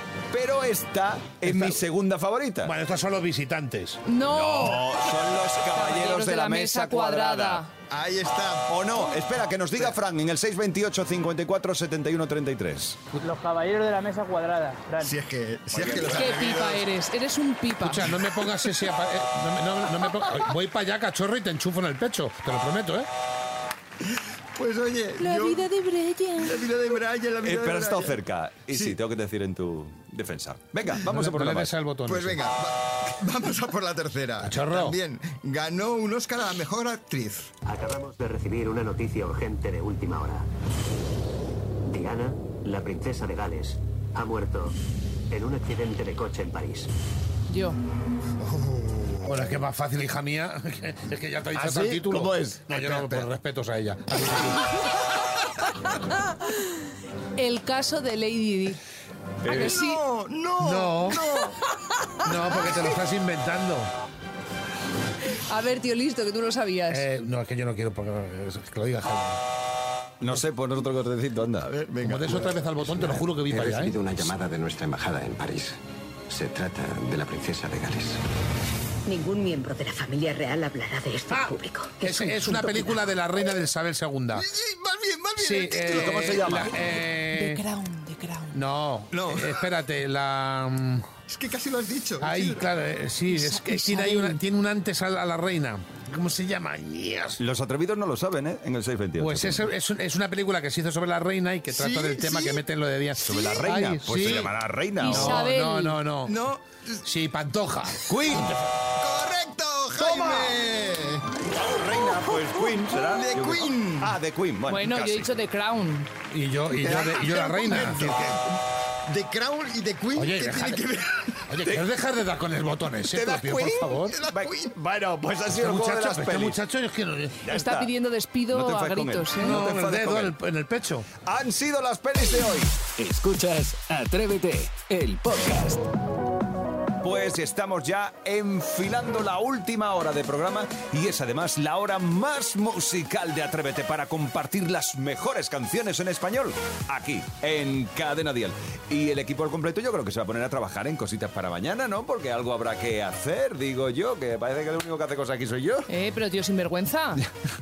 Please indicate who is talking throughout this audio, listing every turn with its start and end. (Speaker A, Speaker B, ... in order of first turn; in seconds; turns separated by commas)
Speaker A: 0.3-2.7, Speaker B: 1.4-1.8, Speaker B: 2.6-4.0, Speaker C: 4.1-7.7, Speaker A: 4.3-7.6, Speaker D: 7.9-8.8, Speaker A: 8.7-13.0, Speaker E: 13.2-15.2, Speaker D: 15.0-16.8, Speaker A: 15.7-16.7, Speaker C: 16.1-18.2, Speaker B: 17.8-23.1, Speaker D: 24.5-25.7, Speaker C: 25.2-26.6, Speaker D: 26.4-28.2, Speaker A: 27.4-31.7, Speaker D: 28.7-29.0, Speaker B: 31.0-32.4, Speaker D: 32.0-37.5, Speaker B: 34.4-35.0, Speaker F: 37.6-40.5, Speaker F: 41.9-44.8, Speaker F: 45.3-46.9, Speaker C: 47.5-47.8, Speaker D: 48.4-49.4, Speaker B: 49.2-54.7, Speaker A: 51.5-53.3, Speaker C: 57.4-58.8, Speaker A: 59.4-59.8, Speaker C: 59.5-60.0, Speaker D: 59.5-61.5, Speaker B: 60.6-61.4, Speaker B: 62.2-63.9, Speaker C: 65.5-67.0, Speaker B: 66.9-69.4, Speaker A: 70.2-71.7, Speaker D: 71.7-72.6, Speaker B: 72.0-74.0, Speaker G: 72.8-75.8, Speaker G: 76.3-78.2, Speaker H: 79.0-83.0, Speaker B: 81.3-84.5, Speaker D: 84.3-86.3, Speaker B: 85.4-87.6, Speaker A: 85.9-87.0, Speaker C: 87.3-88.6, Speaker B: 88.5-91.1, Speaker D: 89.1-89.6, Speaker D: 91.3-92.7, Speaker B: 92.2-97.4, Speaker C: 93.3-94.4, Speaker A: 97.4-99.7, Speaker B: 99.2-106.4, Speaker D: 101.7-102.6, Speaker A: 103.2-105.5, Speaker C: 105.0-106.0, Speaker D: 106.2-107.0, Speaker B: 107.0-108.0, Speaker A: 108.1-108.6, Speaker D: 109.0-111.4, Speaker A: 110.0-110.6, Speaker A: 111.5-115.3, Speaker D: 112.4-114.2, Speaker C: 114.7-116.1, Speaker B: 116.3-118.2, Speaker D: 116.8-121.4, Speaker B: 120.2-120.8, Speaker B: 121.5-124.2, Speaker D: 123.2-124.7, Speaker A: 123.3-123.7, Speaker A: 124.3-126.6, Speaker B: 125.6-127.5, Speaker A: 127.4-127.9, Speaker C: 127.5-129.6, Speaker A: 128.5-130.3, Speaker B: 129.4-131.1, Speaker A: 131.2-132.7, Speaker I: 133.0-135.8, Speaker A: 137.0-155.9, Speaker C: 155.9-157.2